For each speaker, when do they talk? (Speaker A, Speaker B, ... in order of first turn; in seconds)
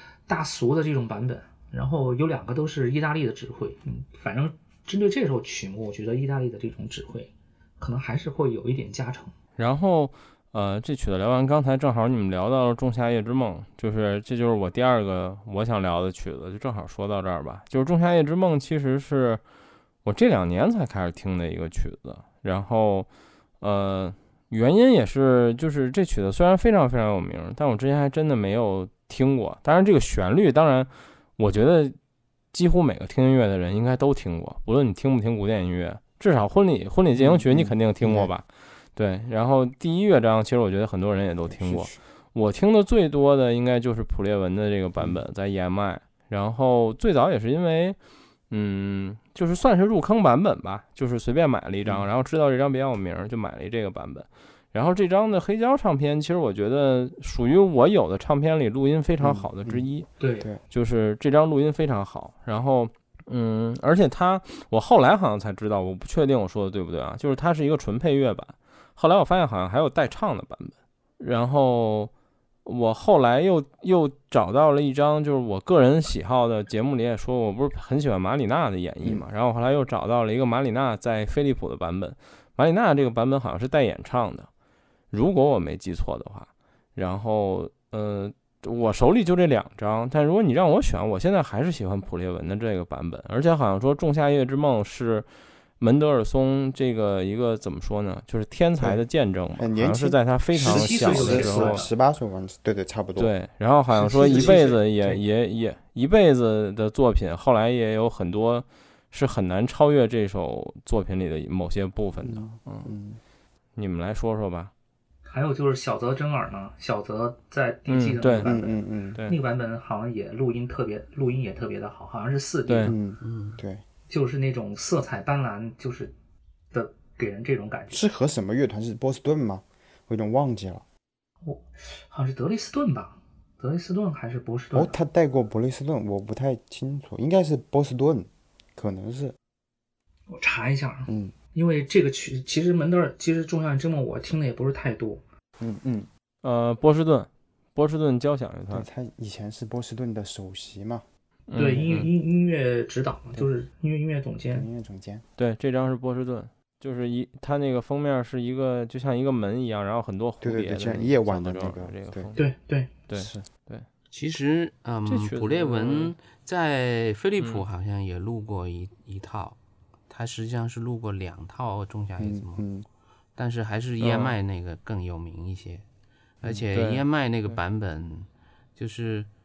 Speaker A: 0.3-9.3, 60.2-60.5, 100.5-101.9, 104.0-105.2, 115.3-123.0, 124.1-126.1, 126.7-128.0, 131.4-134.9, 140.3-145.2, 151.6-154.7, 162.4-162.9
Speaker B: 9.6-19.4, 20.1-23.1, 23.6-31.9, 32.5-48.0, 48.5-60.1, 60.7-72.1, 72.7-84.5, 85.1-95.3, 95.8-101.9, 103.2-112.9, 113.8-114.7, 117.9-118.5, 122.7-123.0, 146.4-148.9, 151.5-152.1, 155.4-162.4, 163.1-163.9, 165.1-166.1, 174.0-174.3, 176.7-177.0
Speaker C: 37.1-38.3, 41.5-42.0, 59.2-59.9, 99.6-103.3, 104.2-104.6, 112.2-113.2, 118.4-119.2, 122.8-123.8, 127.9-130.8, 134.7-139.3, 141.1-141.3, 145.6-146.1, 148.7-151.0, 154.5-155.2, 160.4-162.3, 163.1-163.5, 172.2-172.8
Speaker D: 123.2-123.6, 164.1-169.6, 170.1-172.6, 173.4-175.8, 176.4-179.3